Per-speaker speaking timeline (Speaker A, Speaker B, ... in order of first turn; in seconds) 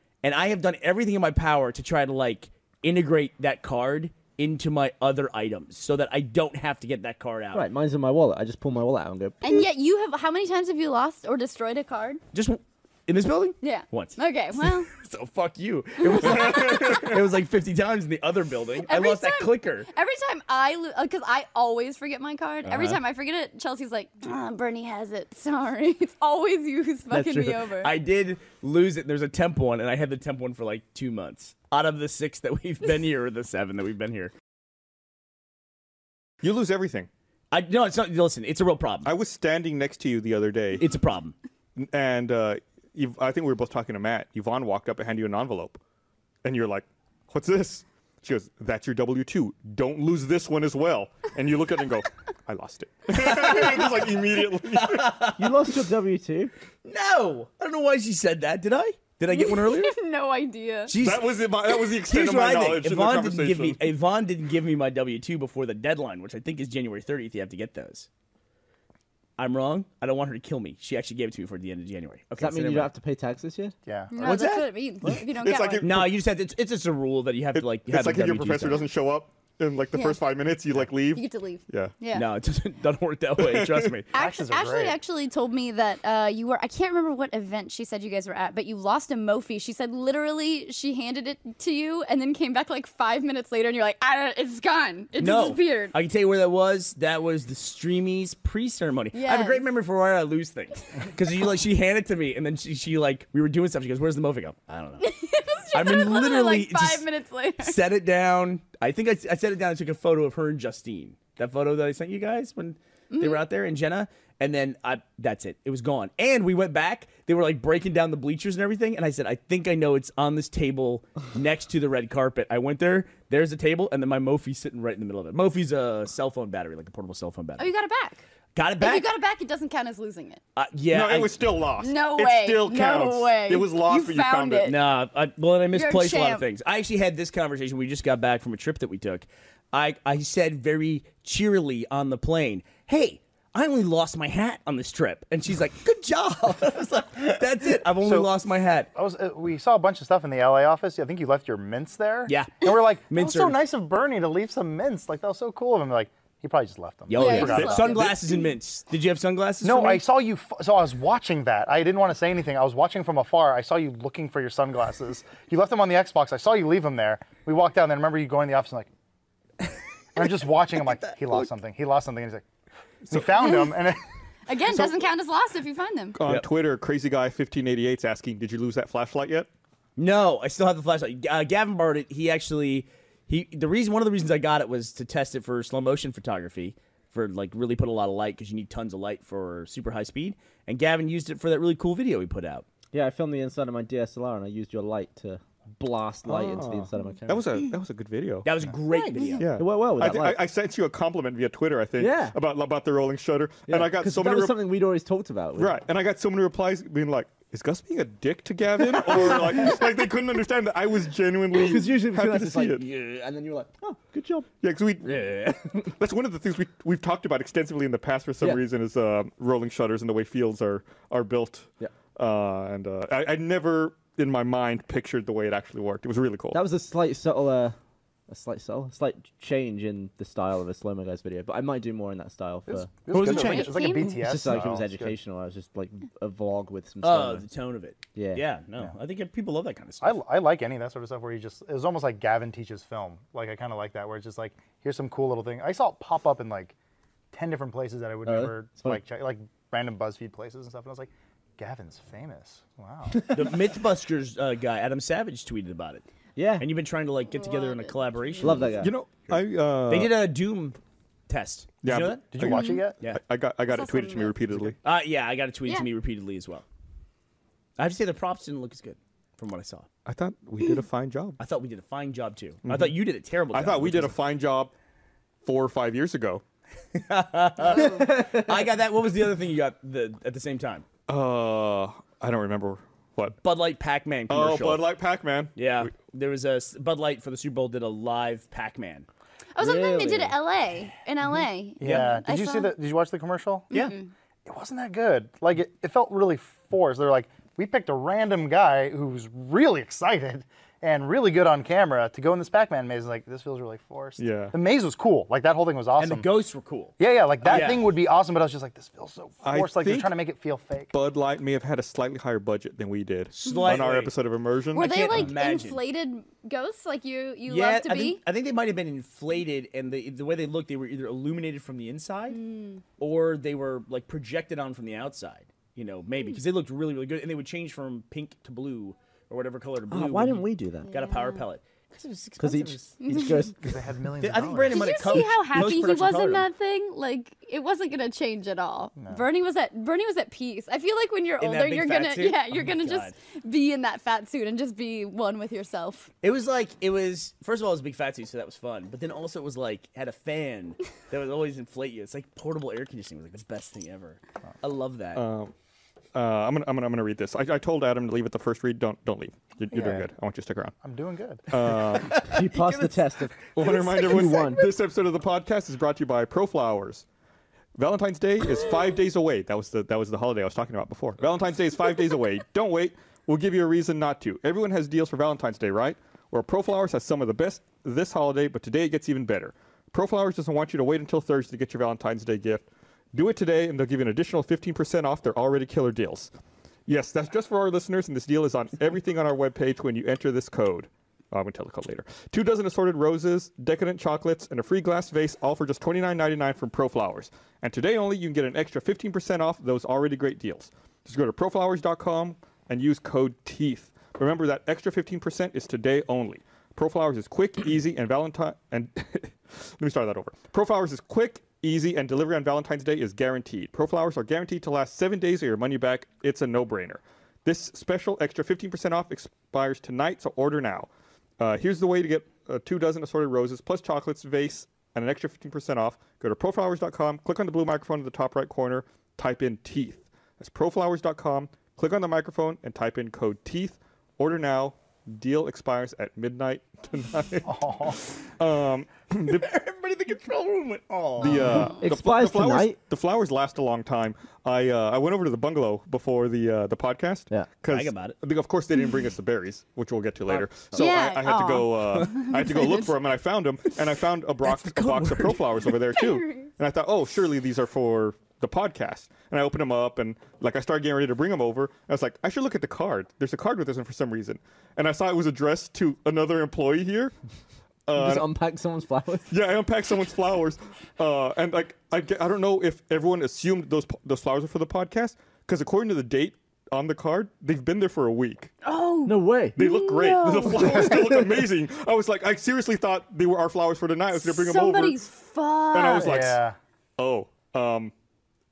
Speaker A: 0.2-7.7, 12.3-19.9, 22.6-23.0, 27.1-34.3, 37.5-39.1, 40.8-41.3, 53.1-55.7, 56.8-59.9, 60.9-68.1, 69.4-72.9, 74.2-74.7, 75.8-78.9, 82.1-84.1, 95.2-105.1, 105.7-107.0, 107.6-127.7, 128.5-129.1, 130.6-131.5, 134.6-148.9, 152.3-153.6, 157.1-160.0, 170.8-171.5, 180.0-192.7, 198.4-199.5, 215.0-215.6, 233.1-233.9, 237.0-240.2, 253.3-256.0, 256.6-258.8, 259.9-260.8, 261.3-262.2, 264.8-266.6, 267.8-269.9, 271.4-274.2, 276.9-280.8, 283.4-284.9, 285.5-289.1, 306.0-307.9, 313.3-314.2, 314.7-315.8, 317.4-322.4, 323.0-333.2, 334.2-336.5, 341.4-343.1, 346.2-355.2, 361.8-363.1, 439.2-441.7, 447.7-448.2, 450.3-451.0, 454.4-455.6
Speaker B: 7.5-9.6, 55.4-56.5, 72.4-73.7, 192.9-197.6, 198.9-200.4, 202.0-202.3, 203.7-205.8, 209.0-209.8, 211.5-214.5, 226.5-227.8, 228.3-232.9, 234.2-237.4, 238.1-238.4, 248.2-249.0, 256.4-256.7, 258.4-258.9, 277.9-278.4, 289.6-290.4, 329.9-330.9, 332.4-333.6, 362.2-364.6, 441.3-442.8, 467.9-469.3, 479.1-479.6, 480.6-481.2
Speaker C: 9.4-12.2, 13.6-14.9, 16.2-16.8, 18.8-27.9, 59.3-60.9, 74.1-75.8, 79.9-80.3, 81.1-82.3, 84.1-95.9, 99.1-99.6, 105.0-107.8, 113.1-113.4, 127.6-128.2, 128.8-130.4, 131.8-134.8, 135.7-136.4, 157.1-158.4, 173.4-173.7, 174.5-176.2, 233.2-234.2, 257.3-258.8, 262.5-262.8, 263.7-264.4, 289.5-292.7, 293.7-294.1, 314.7-318.2, 322.3-322.8, 330.9-331.4, 333.0-333.5, 334.7-346.1, 450.7-452.9, 455.9-456.5, 478.6-480.9, 484.1-486.3
Speaker D: 16.2-17.2, 36.4-37.1, 39.0-40.9, 41.8-45.8, 46.4-55.3, 61.0-63.9, 75.3-76.2, 77.5-81.9, 83.4-83.9, 130.9-134.7, 176.1-179.5, 196.2-198.6, 199.4-204.6, 205.6-212.8, 214.6-226.6, 258.8-260.1, 261.8-264.8, 270.1-271.4, 272.6-274.7, 275.4-276.4, 281.1-283.4, 284.3-285.9, 304.2-304.5, 309.4-310.2, 310.9-315.2, 355.1-355.5, 356.1-360.7, 361.5-362.2, 363.5-367.1, 367.8-386.3, 386.9-439.5, 441.2-467.1, 467.9-468.3, 469.3-478.5, 479.6-485.0, 485.7-486.4, 487.0-487.9
Speaker E: 73.8-74.1, 84.1-85.0, 148.0-148.3, 148.9-158.1, 159.6-168.9, 170.2-172.4, 173.1-174.0, 232.7-235.1, 240.0-246.7, 247.3-253.5, 262.3-263.0, 291.8-293.7, 294.4-306.2, 307.0-310.9, 333.6-335.1, 359.7-360.1, 360.8-361.4, 437.4-438.0, 486.0-486.6